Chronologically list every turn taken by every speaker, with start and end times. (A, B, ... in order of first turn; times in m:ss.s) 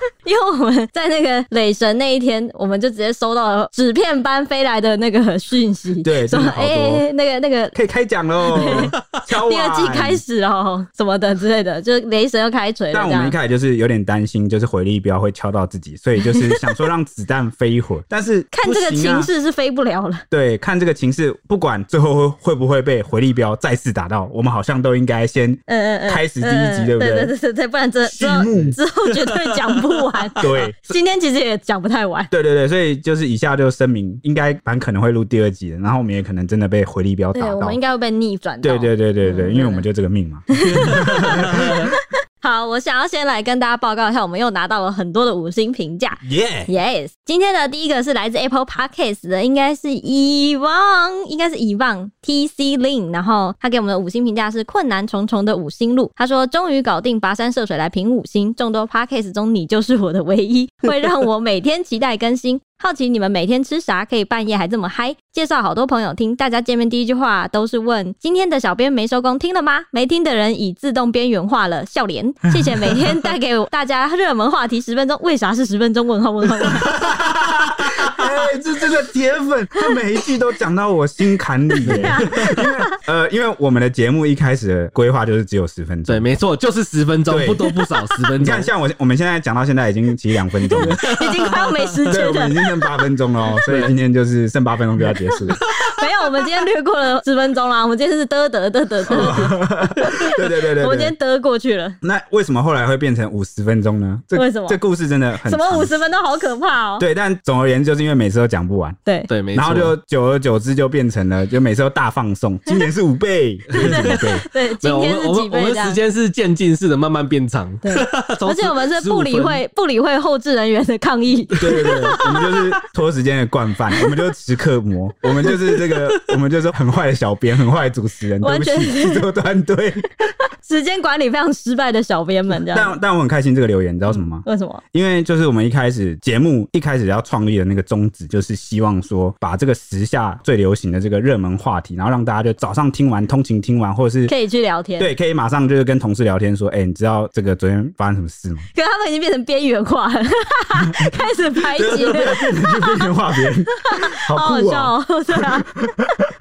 0:00.2-0:07.8 A
0:06.0-0:07.0 B
0:07.8-0:10.2 B
0:08.5-0:13.4 A
0:12.9-0:19.3 B
0:16.2-0:16.7 A
0:18.5-0:20.2 A
0:20.3-0:27.3 B
0:25.7-0:32.3 A
0:28.0-0:28.8 B
0:30.4-0:30.9 B
0:32.3-0:37.8 B
0:37.3-0:39.8 A
0:38.6-0:41.9 B
0:40.5-1:17.2 A
0:40.7-0:41.8 C
0:46.2-0:46.7 B
1:16.9-1:26.3 B
1:21.8-1:23.0 A
1:21.8-1:22.5 C
1:26.1-1:28.7 C
1:27.3-1:27.7 B
1:28.4-1:31.2 B
1:30.7-1:32.9 A
1:30.8-1:31.9 C
1:32.1-1:35.6 B
1:33.7-1:33.9 C
1:35.5-1:42.0 A
1:39.1-1:41.1 B
1:42.0-1:45.9 B
1:44.4-1:44.8 A
1:45.4-1:47.0 A
1:47.0-1:49.0 B
1:49.3-1:50.0 C
1:49.5-1:54.4 B
1:53.8-1:54.3 C
1:53.8-1:56.0 A
1:54.8-1:59.6 C
1:57.8-2:02.6 A
2:01.6-2:10.1 B
2:08.4-2:09.2 A
2:10.2-2:13.0 A
2:12.5-2:24.3 B
2:14.4-2:14.8 A
2:24.3-2:25.1 A
2:25.0-2:28.7 B
2:28.7-2:33.1 A
2:30.8-2:36.3 B
2:33.8-2:35.8 A